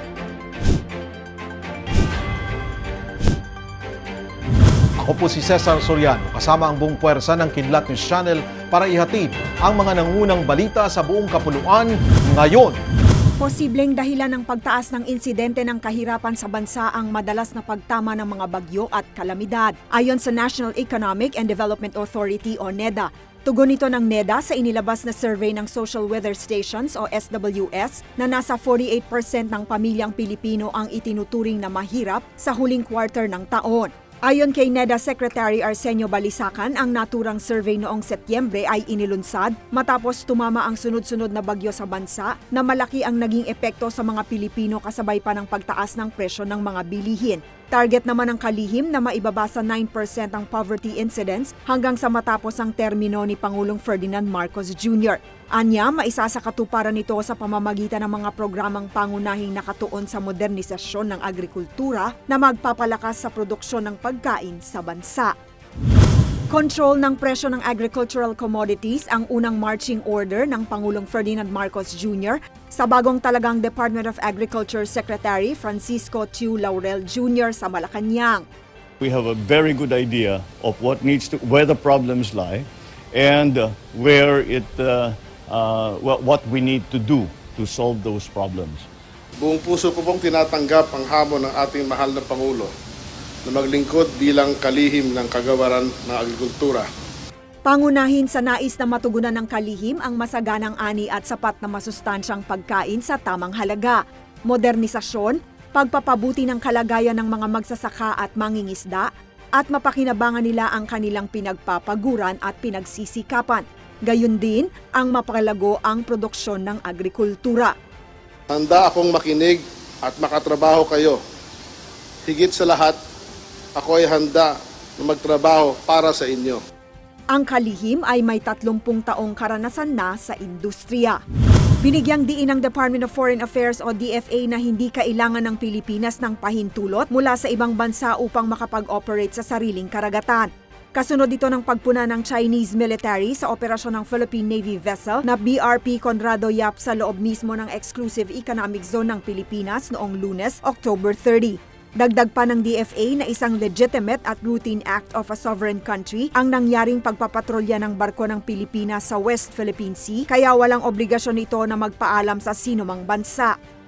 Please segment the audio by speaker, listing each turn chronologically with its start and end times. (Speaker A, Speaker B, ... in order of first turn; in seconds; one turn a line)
Speaker A: 5.0-12.8
Speaker B: 13.4-65.3
Speaker B: 66.5-78.5
Speaker C: 79.0-88.9
Speaker D: 89.4-92.7
Speaker D: 93.5-96.9
Speaker B: 97.7-117.7
Speaker D: 118.5-121.2
Speaker D: 122.3-123.0
Speaker D: 123.8-126.6
Speaker B: 127.3-131.2
Speaker B: 131.8-163.5